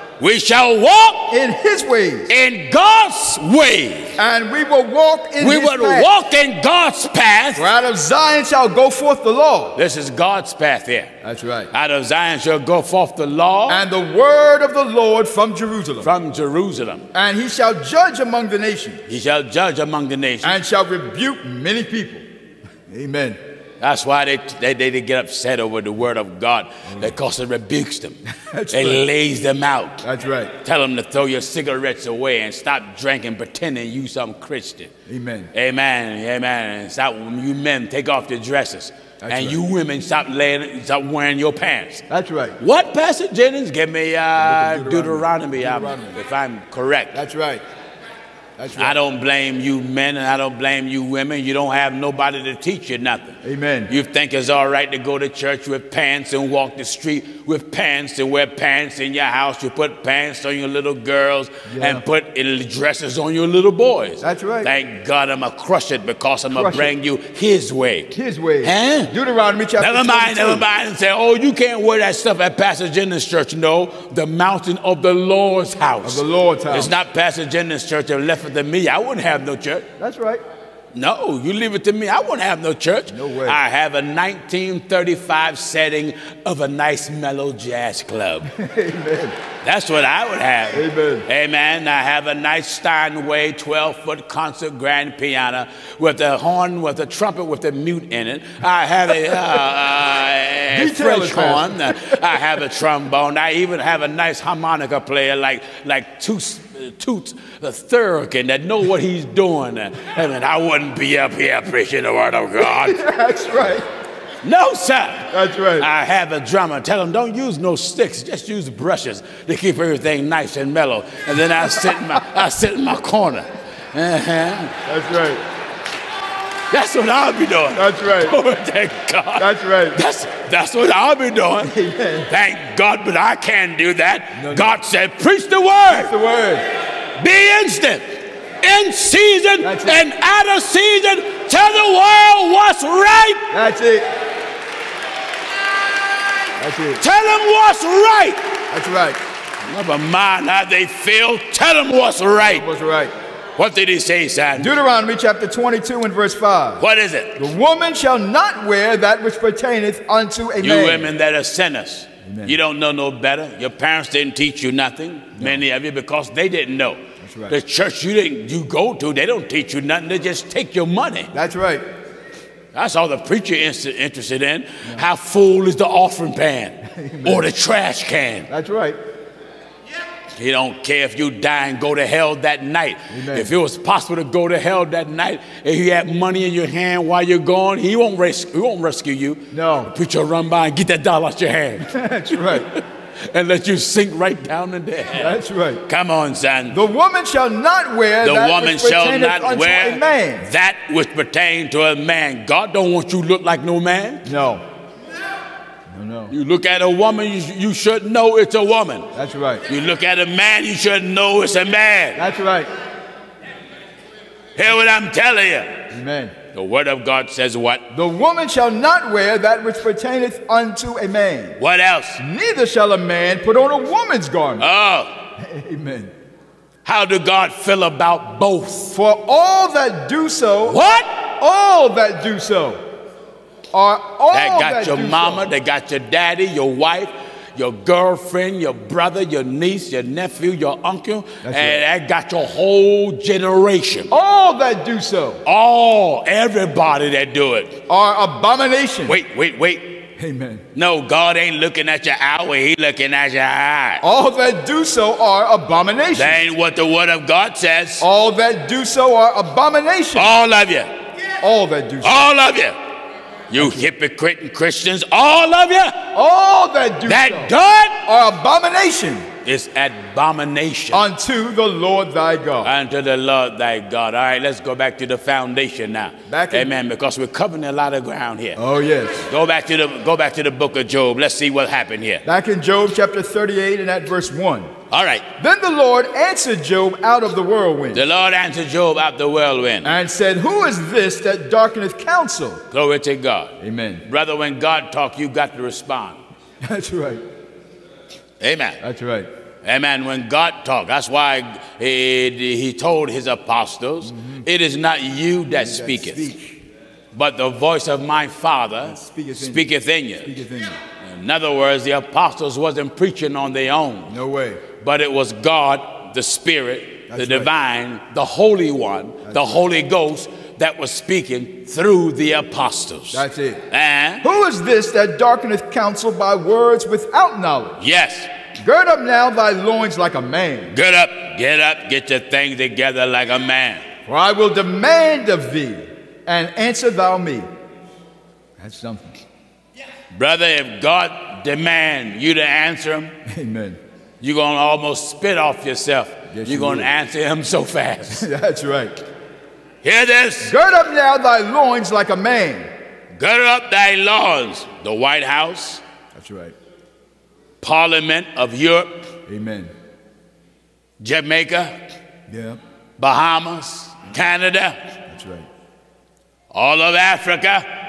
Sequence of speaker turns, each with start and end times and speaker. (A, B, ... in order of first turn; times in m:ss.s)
0:00.2-0:01.4 A
0:01.3-0:02.3 B
0:02.3-0:04.2 A
0:04.2-0:06.1 B
0:05.4-0:07.7 A
0:07.6-0:09.8 B
0:09.8-0:11.1 A
0:11.2-0:11.7 B
0:11.7-0:13.8 A
0:13.7-0:16.1 B
0:16.0-0:17.1 A
0:17.1-0:19.0 B
0:19.1-0:20.6 A
0:20.4-0:22.2 B
0:22.9-0:23.4 B
0:23.8-0:28.2 A
0:26.9-0:27.1 B
0:28.3-0:29.0 B
0:28.7-0:30.0 A
0:30.0-0:30.5 B
0:30.6-0:34.9 A
0:35.1-0:35.5 B
0:35.5-0:42.0 A
0:39.2-0:39.6 B
0:42.1-0:42.6 B
0:42.6-0:47.2 A
0:44.4-0:46.2 B
0:47.1-0:47.6 B
0:48.6-0:49.0 B
0:48.8-0:53.4 A
0:53.4-0:53.9 B
0:53.9-1:09.1 A
1:01.7-1:02.0 B
1:04.2-1:04.7 B
1:06.5-1:06.9 B
1:08.2-1:10.6 B
1:09.8-1:19.9 A
1:16.0-1:17.0 B
1:20.0-1:20.4 B
1:20.9-1:28.5 A
1:23.1-1:23.6 B
1:28.5-1:29.4 B
1:29.6-1:53.0 A
1:30.7-1:31.3 B
1:40.7-1:42.4 B
1:52.6-1:53.8 B
1:54.4-2:04.8 A
1:55.3-1:55.9 B
2:04.9-2:05.4 B
2:06.7-2:11.7 A
2:07.7-2:08.4 B
2:09.4-2:10.0 B
2:11.6-2:12.3 B
2:12.3-2:16.1 A
2:14.4-2:14.7 B
2:15.9-2:16.6 B
2:17.2-2:23.5 A
2:19.6-2:20.0 B
2:23.5-2:24.1 B
2:26.6-2:27.0 B
2:27.0-2:28.5 A
2:28.7-2:29.2 B
2:29.7-2:32.6 A
2:32.4-2:33.1 B
2:33.6-2:34.8 A
2:34.6-2:36.8 B
2:36.8-2:37.4 A
2:37.4-2:41.1 B
2:40.6-2:51.3 A
2:42.2-2:42.6 B
2:45.4-2:45.6 B
2:47.2-2:47.6 B
2:51.3-2:51.8 B
2:52.7-2:58.5 A
2:56.9-2:57.5 B
2:58.5-2:59.0 B
3:00.4-3:16.8 A
3:03.1-3:03.5 B
3:09.5-3:09.9 B
3:11.9-3:12.7 B
3:15.2-3:15.8 B
3:16.7-3:20.5 B
3:18.2-3:24.2 A
3:24.3-3:24.6 B
3:25.9-3:26.3 B
3:26.3-3:29.1 A
3:29.1-3:29.7 B
3:29.7-3:32.2 A
3:32.2-3:32.7 B
3:34.6-3:35.8 A
3:35.9-3:36.3 B
3:36.5-3:37.9 A
3:37.9-3:41.6 B
3:41.6-3:42.2 A
3:42.2-3:44.7 B
3:44.6-3:45.2 A
3:45.4-3:46.1 B
3:46.8-3:48.9 A
3:49.0-3:52.8 B
3:50.7-3:51.1 A
3:53.7-3:55.4 B
3:54.3-4:04.1 A
4:01.4-4:01.8 B
4:04.1-4:05.4 B
4:05.4-4:07.8 A
4:07.9-4:09.2 B
4:09.1-4:10.1 A
4:10.2-4:10.6 B
4:10.8-4:14.0 A
4:14.0-4:16.4 B
4:16.2-4:18.0 A
4:18.0-4:20.4 B
4:20.2-4:20.9 A
4:21.4-4:22.3 B
4:22.0-4:22.8 A
4:23.5-4:26.1 A
4:23.6-4:23.9 B
4:26.1-4:29.3 B
4:27.1-4:28.0 A
4:29.4-4:31.1 A
4:30.9-4:32.7 B
4:32.6-4:38.6 A
4:36.3-4:36.7 B
4:38.6-4:39.3 B
4:39.3-4:42.2 A
4:42.2-4:44.7 B
4:44.9-4:45.2 A
4:45.4-4:48.0 B
4:47.9-4:50.0 A
4:49.8-4:52.6 B
4:52.7-4:56.2 A
4:53.6-4:54.0 B
4:56.6-4:57.2 B
4:58.4-4:58.8 A
4:58.8-4:59.3 B
4:59.6-5:06.3 A
5:04.0-5:04.5 B
5:05.5-5:06.6 B
5:07.1-5:10.3 A
5:08.8-5:09.7 B
5:10.2-5:10.8 B
5:11.0-5:14.1 A
5:14.1-5:14.6 B
5:14.8-5:24.2 A
5:17.1-5:17.5 B
5:19.2-5:19.6 B
5:23.1-5:23.6 B
5:24.2-5:27.8 B
5:27.8-5:28.3 A
5:28.6-5:30.7 B
5:30.7-5:33.8 A
5:34.1-5:37.5 B
5:38.6-5:39.2 B
5:40.1-5:43.2 A
5:43.3-5:43.8 B
5:44.2-5:48.3 A
5:46.3-5:46.9 B
5:48.2-5:49.0 B
5:49.8-5:50.6 A
5:50.4-5:52.7 B
5:53.2-5:55.8 A
5:56.2-5:56.6 B
5:57.6-5:59.1 A
5:59.3-5:59.7 B
6:01.0-6:01.8 A
6:02.3-6:02.6 B
6:03.0-6:04.9 A
6:05.1-6:05.5 B
6:06.5-6:07.7 A